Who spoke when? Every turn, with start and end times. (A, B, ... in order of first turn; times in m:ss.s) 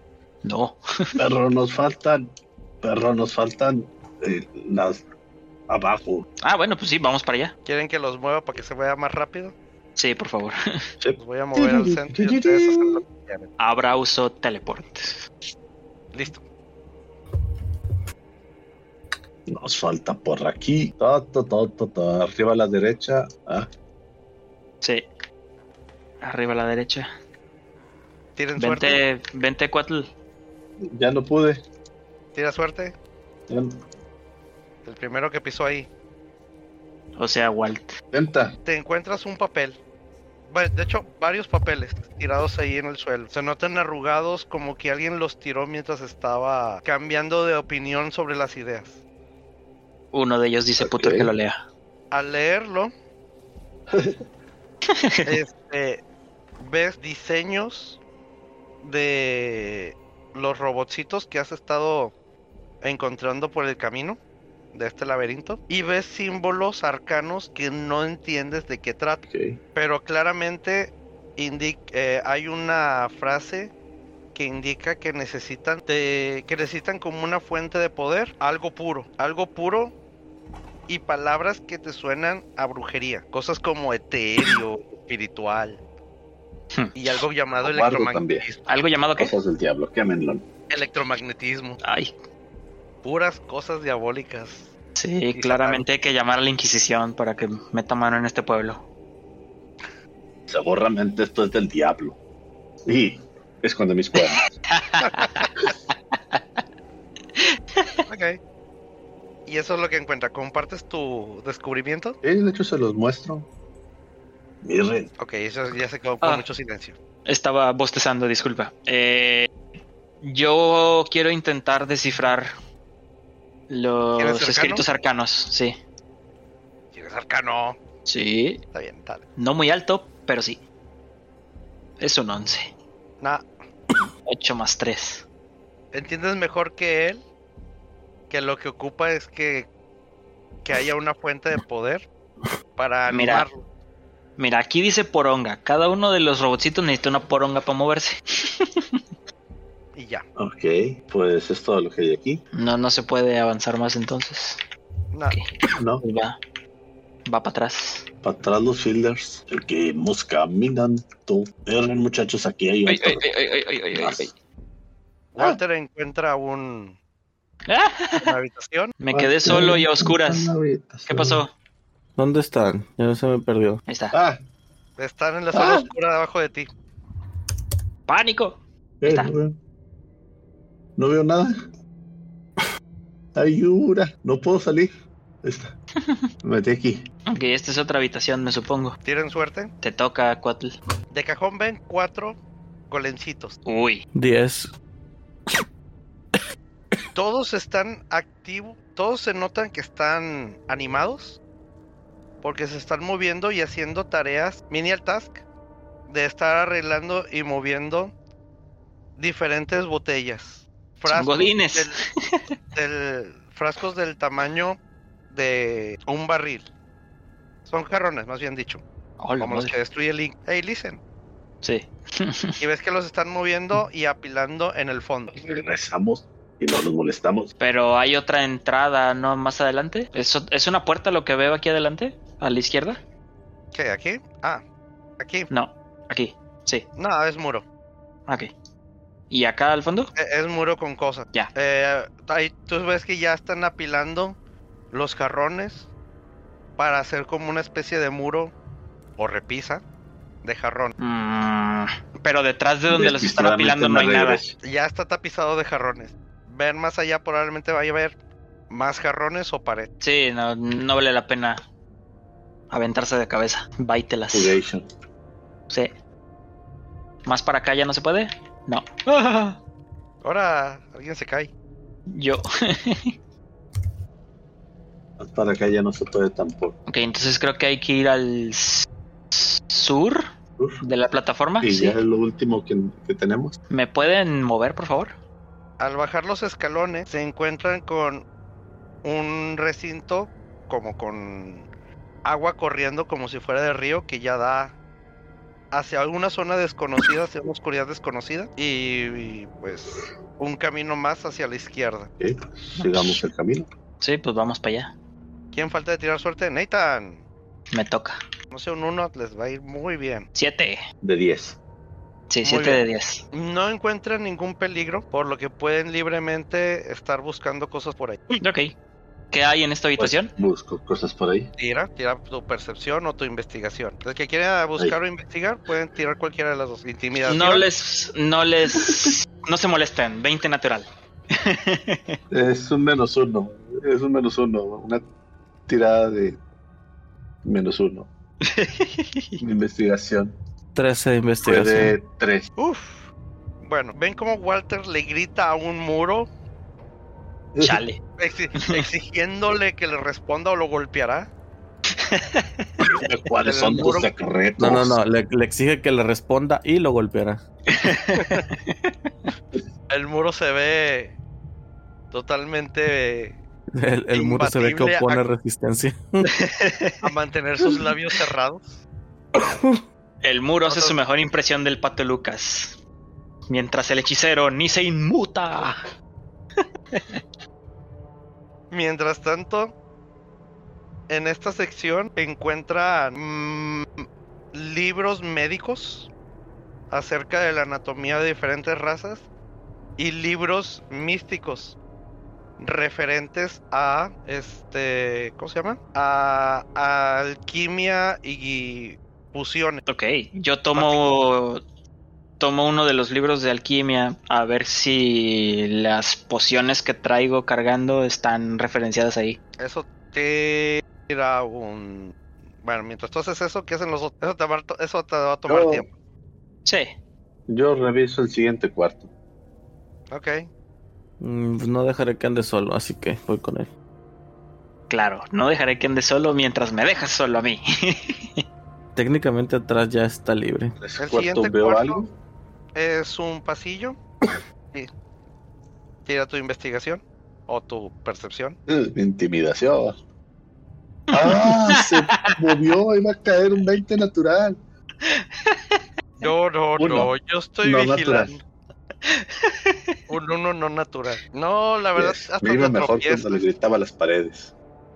0:00.4-0:01.2 A
0:01.2-0:02.2 B
0:02.8-0:05.0 B
0:05.7-0:06.2 B
0:06.4-0:07.6 A
0:07.6-0:09.5 C
0:10.0-0:10.6 A
0:11.0-0:13.0 B
0:11.2-0:13.5 C
0:13.6-0:15.2 A
0:16.1-0:16.4 C
0:19.5-0:23.7 B
0:24.8-0:25.1 A
0:26.2-0:27.1 A
0:28.4-0:29.0 C
0:28.6-0:30.1 A
0:30.8-0:31.6 B
0:32.4-0:32.9 C
0:33.5-0:33.8 B
0:34.8-0:35.9 C
0:37.2-0:37.9 A
0:38.1-0:38.6 B
0:38.6-0:39.8 C
0:40.5-0:49.0 C
0:50.1-0:51.6 A
0:50.8-0:51.3 B
0:52.1-0:52.9 C
0:53.9-0:54.2 B
0:54.9-0:55.3 A
0:55.2-0:56.0 C
0:56.6-0:58.0 C
0:58.8-1:02.1 C
1:02.8-1:04.2 C
1:04.7-1:09.2 C
1:09.2-1:09.6 B
1:09.7-1:13.7 C
1:14.3-1:19.9 C
1:20.9-1:25.8 C
1:26.7-1:27.2 A
1:26.9-1:28.7 C
1:27.6-1:28.4 B
1:28.7-1:29.3 A
1:29.2-1:30.4 B
1:30.7-1:31.8 C
1:31.8-1:32.1 A
1:33.0-1:34.7 C
1:35.0-1:38.8 A
1:35.3-1:35.8 C
1:40.5-1:42.2 B
1:42.9-1:44.4 B
1:44.2-1:45.5 A
1:45.0-1:45.4 C
1:47.4-1:48.0 A
1:48.1-1:48.4 C
1:49.5-1:52.2 C
1:52.2-1:53.5 B
1:54.6-1:55.1 B
1:55.2-1:57.0 C
1:57.3-1:59.5 A
2:00.2-2:02.5 A
2:03.7-2:05.8 A
2:04.2-2:04.8 C
2:06.9-2:07.8 C
2:08.1-2:08.6 A
2:08.7-2:09.2 C
2:09.4-2:10.6 A
2:12.0-2:12.7 A
2:14.2-2:15.2 A
2:15.9-2:17.2 C
2:18.3-2:19.7 C
2:20.6-2:22.1 C
2:22.8-2:23.6 C
2:23.1-2:23.5 A
2:24.4-2:29.0 A
2:29.9-2:30.3 C
2:30.4-2:32.4 B
2:32.5-2:34.6 A
2:35.1-2:35.4 C
2:35.8-2:36.0 B
2:36.0-2:36.4 A
2:37.3-2:38.1 A
2:38.2-2:43.3 B
2:42.9-2:44.3 A
2:43.9-2:44.3 B
2:45.4-2:47.0 C
2:47.7-2:48.3 A
2:48.2-2:48.9 C
2:49.0-2:50.5 A
2:49.1-2:51.4 B
2:51.1-2:51.5 A
2:52.2-2:53.8 D
2:53.9-2:54.2 A
2:54.1-2:54.4 B
2:55.0-2:56.7 C
2:55.5-2:55.9 B
2:58.1-2:59.3 A
2:59.0-2:59.6 B
3:01.0-3:01.6 B
3:03.4-3:04.9 B
3:05.4-3:05.7 B
3:06.4-3:07.1 B
3:07.3-3:09.0 A
3:09.0-3:09.7 C
3:09.8-3:10.7 A
3:11.1-3:12.4 C
3:12.9-3:13.6 C
3:13.6-3:14.0 A
3:14.1-3:14.7 D
3:17.2-3:21.4 C
3:22.4-3:25.4 C
3:26.1-3:28.1 C
3:29.2-3:32.0 C
3:31.1-3:32.5 A
3:32.7-3:34.8 C
3:35.3-3:36.6 C
3:37.7-3:38.8 C
3:39.2-3:39.7 A
3:39.4-3:41.0 C
3:41.6-3:42.6 A
3:42.6-3:45.3 C
3:45.3-3:47.5 B
3:47.6-3:53.0 A
3:53.7-3:54.6 C
3:55.2-3:55.5 C
3:55.5-3:56.9 A
3:57.0-3:57.6 C
3:59.3-4:00.1 A
4:00.2-4:04.4 C
4:04.9-4:05.9 C
4:06.8-4:08.5 C
4:09.2-4:09.8 C
4:10.4-4:10.9 C
4:11.0-4:14.4 A
4:12.9-4:14.6 B
4:14.6-4:18.2 C
4:18.7-4:19.9 C
4:20.0-4:21.6 A
4:22.7-4:24.6 A
4:24.3-4:24.8 B
4:27.3-4:29.6 A
4:30.2-4:31.5 C
4:32.1-4:33.1 A
4:35.2-4:36.8 B
4:36.9-4:40.2 A
4:40.6-4:40.8 B
4:40.8-4:42.0 A
4:41.6-4:43.6 B
4:43.7-4:45.1 A
4:45.8-4:48.3 C
4:49.0-4:51.7 C
4:52.2-4:54.8 C
4:55.7-5:02.1 C
5:02.2-5:03.6 B
5:02.8-5:03.2 A
5:04.0-5:04.9 A
5:05.5-5:07.2 C
5:07.7-5:08.2 A
5:08.5-5:10.3 C
5:10.4-5:10.8 A
5:11.0-5:11.6 B
5:12.3-5:13.2 A
5:12.4-5:12.8 C
5:13.3-5:18.2 C
5:18.3-5:18.7 A
5:19.3-5:20.3 A
5:20.0-5:21.5 B
5:21.6-5:27.7 C
5:27.3-5:32.2 A
5:28.8-5:29.1 B
5:32.3-5:35.0 B
5:35.7-5:36.4 B
5:37.4-5:38.1 B
5:38.4-5:39.4 A
5:39.4-5:40.4 B
5:40.7-5:41.9 D
5:41.4-5:42.5 B
5:42.6-5:43.1 C
5:43.6-5:46.3 C
5:47.6-5:47.8 B
5:47.6-5:48.0 A
5:48.2-5:51.3 C
5:48.6-5:48.9 A
5:51.9-5:52.8 A
5:52.8-5:55.0 B
5:53.4-5:54.1 C
5:54.6-5:57.4 D
5:57.7-5:58.9 A
5:58.2-5:58.4 C
5:59.9-6:01.2 C
6:02.1-6:03.4 C
6:03.7-6:06.4 D
6:04.1-6:05.2 C
6:06.3-6:07.0 A
6:07.0-6:08.8 C
6:09.4-6:09.8 D
6:10.2-6:12.8 A
6:10.7-6:11.0 C
6:13.5-6:15.8 A
6:16.9-6:17.2 A
6:18.7-6:19.7 C
6:21.1-6:26.1 C
6:26.9-6:29.3 C
6:30.0-6:31.8 C
6:32.6-6:39.8 C
6:39.9-6:41.6 A
6:40.7-6:41.1 C
6:42.4-6:49.4 A
6:49.6-6:55.9 C
6:55.5-6:55.8 B
6:56.6-6:56.9 A
6:57.5-6:59.1 B
7:00.1-7:00.5 C
7:01.2-7:03.7 D
7:04.9-7:08.4 A
7:09.0-7:10.8 D
7:10.8-7:12.1 B
7:11.0-7:12.0 C
7:12.7-7:14.0 C
7:16.0-7:18.6 C
7:18.7-7:20.0 B
7:21.1-7:22.4 A
7:21.1-7:24.6 B
7:25.0-7:26.3 A
7:26.2-7:28.4 C
7:26.8-7:27.1 B
7:27.6-7:28.3 B
7:29.0-7:30.0 A
7:30.1-7:33.5 C
7:32.0-7:34.5 B